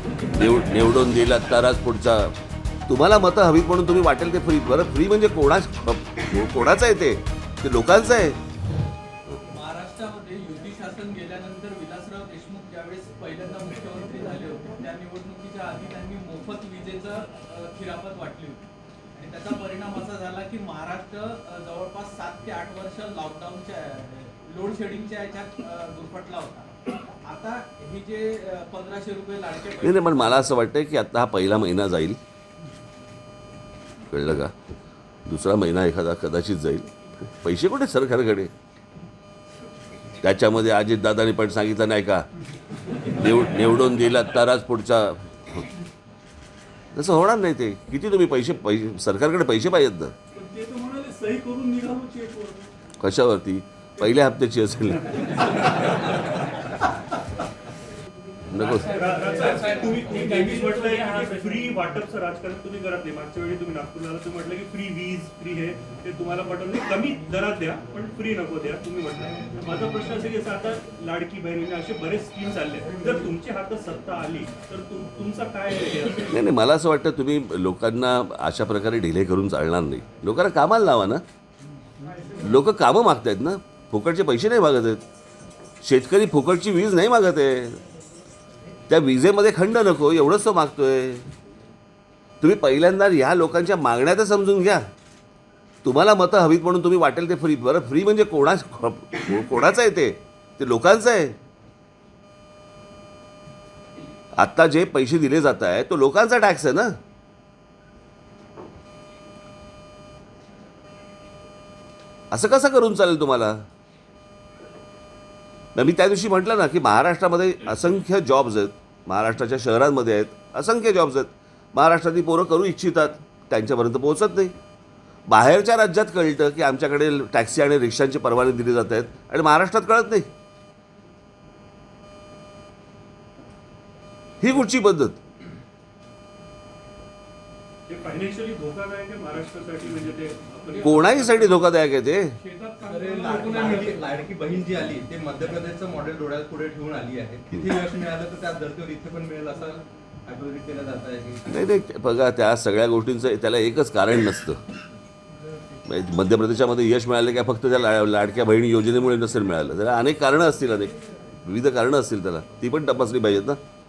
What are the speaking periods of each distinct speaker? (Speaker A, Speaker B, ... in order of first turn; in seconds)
Speaker A: 0.3-2.3, 2.9-8.4, 29.8-32.2, 34.1-34.5, 35.3-38.5, 40.2-42.3, 43.1-45.7, 46.9-50.1, 53.0-55.9, 58.5-59.0, 76.3-81.2, 82.3-85.0, 85.8-87.8, 88.9-91.3, 92.4-94.8, 95.8-101.4, 104.4-107.0, 112.3-113.7, 115.8-124.5, 125.3-130.3, 134.4-135.2, 140.8-142.4, 151.5-154.6, 155.9-163.6
Speaker B: 9.5-26.7, 27.2-30.5, 58.9-61.3, 140.7-141.2, 142.4-144.2
Speaker C: 50.3-52.7, 58.7-76.4, 137.9-141.5, 142.9-143.9
Speaker D: 142.8-151.5